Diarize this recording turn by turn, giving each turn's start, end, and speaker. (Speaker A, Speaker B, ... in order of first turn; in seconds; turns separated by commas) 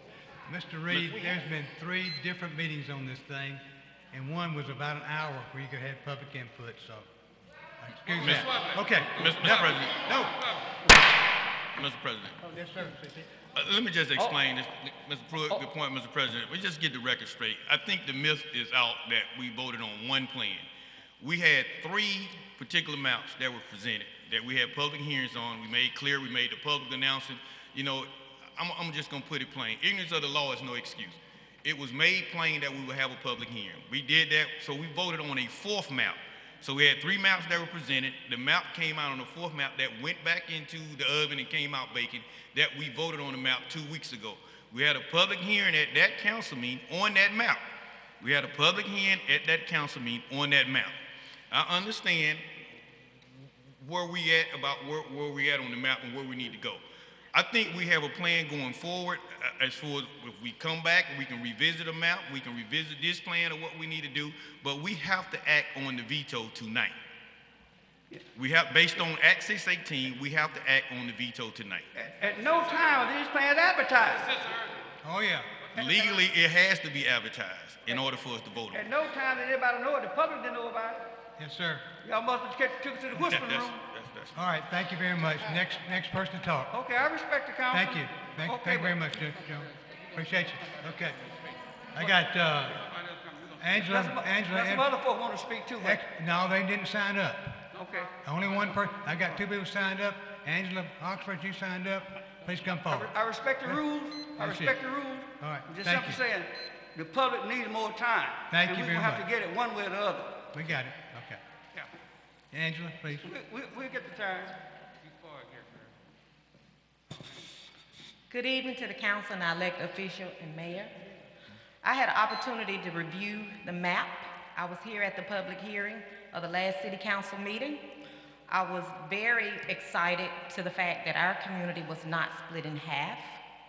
Speaker A: 0.5-7.1, Speaker B: 0.9-1.2, Speaker A: 7.8-10.4, Speaker B: 8.2-10.0, Speaker B: 11.8-12.4, Speaker A: 12.4-13.3, Speaker B: 13.6-20.7, Speaker B: 21.2-47.6, Speaker B: 48.2-51.0, Speaker B: 51.5-52.5, Speaker B: 53.8-67.0, Speaker B: 68.3-71.9, Speaker C: 72.0-74.4, Speaker A: 75.0-75.5, Speaker B: 75.7-78.9, Speaker C: 75.8-76.2, Speaker C: 78.7-81.0, Speaker A: 81.4-81.8, Speaker C: 82.0-83.8, Speaker B: 83.2-84.4, Speaker A: 84.3-86.7, Speaker C: 86.7-89.0, Speaker A: 87.7-91.2, Speaker A: 91.9-92.9, Speaker A: 93.6-94.9, Speaker C: 93.7-96.0, Speaker A: 95.8-97.7, Speaker C: 97.8-98.1, Speaker A: 98.2-103.1, Speaker C: 102.8-110.4, Speaker A: 104.4-104.8, Speaker A: 105.4-106.2, Speaker A: 108.5-109.3, Speaker A: 110.5-111.4, Speaker A: 112.5-113.3, Speaker C: 113.2-114.5, Speaker C: 115.2-115.6, Speaker D: 118.3-120.9, Speaker D: 121.8-127.8, Speaker D: 128.5-133.4